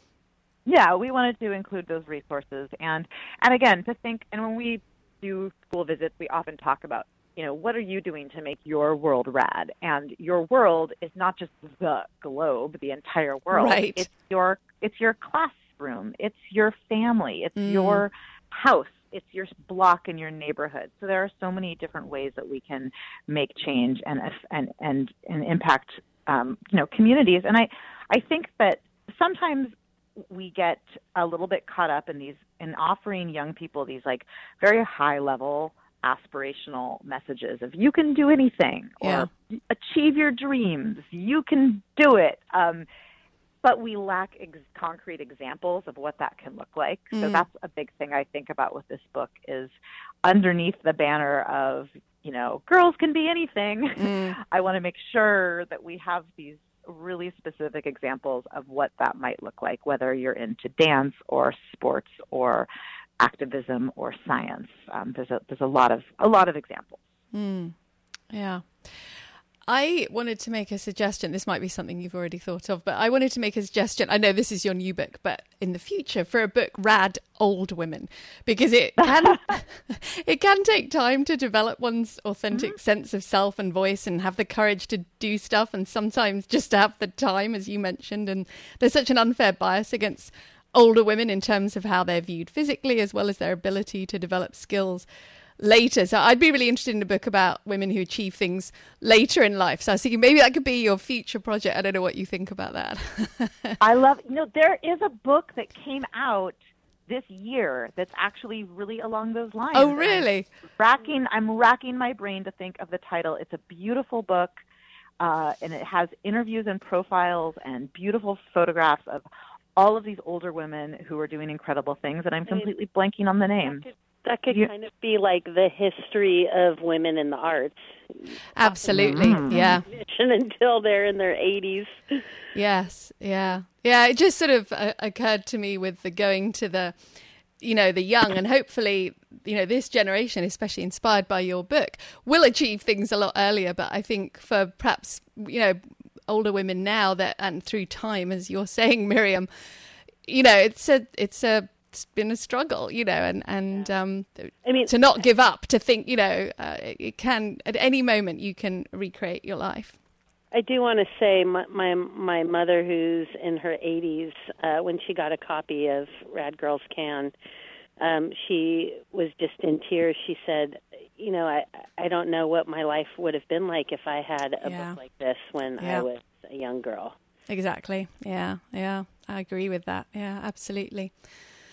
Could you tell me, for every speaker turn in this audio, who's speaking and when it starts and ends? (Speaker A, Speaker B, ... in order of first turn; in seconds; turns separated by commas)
Speaker A: 0.7-42.9, Speaker B: 13.5-14.1, Speaker B: 17.6-18.0, Speaker B: 39.0-39.3, Speaker A: 43.6-62.7, Speaker B: 47.1-47.5, Speaker B: 54.0-54.4, Speaker A: 63.2-67.0, Speaker B: 67.3-67.7, Speaker B: 68.3-95.1, Speaker A: 79.0-79.4, Speaker B: 95.6-103.8, Speaker A: 103.8-106.5, Speaker A: 107.1-110.3, Speaker B: 109.7-110.5, Speaker A: 110.8-114.5, Speaker A: 115.2-123.8, Speaker C: 123.7-132.2, Speaker B: 128.6-129.8, Speaker A: 128.9-129.8, Speaker B: 132.5-137.0, Speaker B: 137.6-149.5, Speaker B: 150.2-159.9, Speaker C: 154.6-154.9, Speaker C: 160.5-167.3, Speaker C: 168.0-177.1, Speaker B: 174.6-175.0, Speaker B: 175.8-176.1, Speaker B: 177.5-181.2